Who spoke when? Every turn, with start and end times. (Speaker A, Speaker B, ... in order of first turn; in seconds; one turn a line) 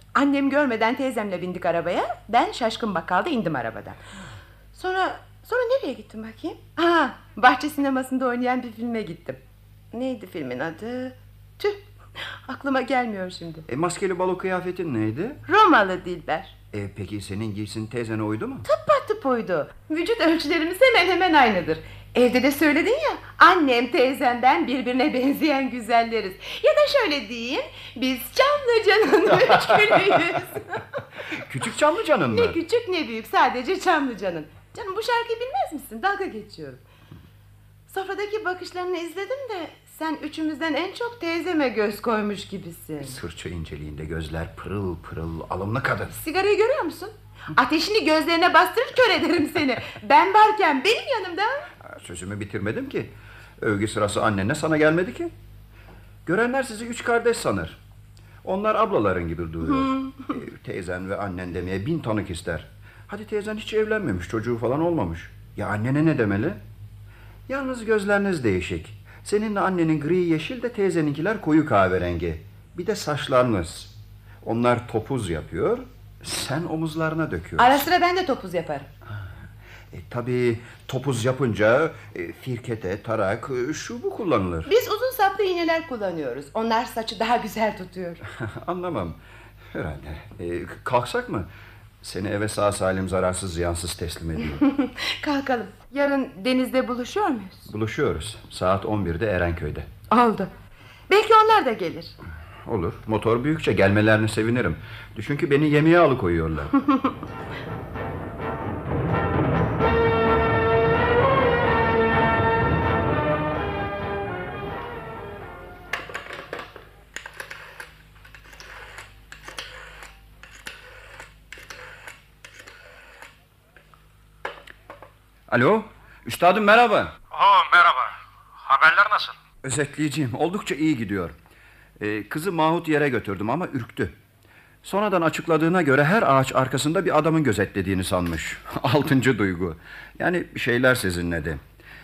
Speaker A: 0.1-4.0
Speaker A: 4.7-9.4
Speaker A: 9.9-11.8
Speaker A: 12.5-13.7
Speaker B: 13.7-15.4
Speaker A: 15.4-16.6
Speaker B: 16.7-18.7
Speaker A: 18.6-30.8
Speaker B: 29.4-30.2
Speaker B: 31.4-32.6
Speaker A: 32.3-36.8
Speaker A: 37.9-43.1
Speaker B: 43.0-46.2
Speaker A: 46.1-51.6
Speaker B: 51.8-55.3
Speaker B: 56.2-57.8
Speaker B: 58.4-66.6
Speaker B: 67.5-77.9
Speaker A: 77.6-78.9
Speaker B: 79.9-84.7
Speaker A: 84.7-88.2
Speaker B: 88.2-89.2
Speaker B: 89.7-91.5
Speaker B: 92.0-94.6
Speaker A: 94.6-97.7
Speaker B: 97.7-99.9
Speaker A: 100.1-100.5
Speaker A: 101.1-102.1
Speaker B: 102.6-106.7
Speaker B: 125.5-127.1
Speaker C: 127.3-129.3
Speaker B: 129.6-131.3
Speaker B: 132.0-134.2
Speaker B: 134.8-141.6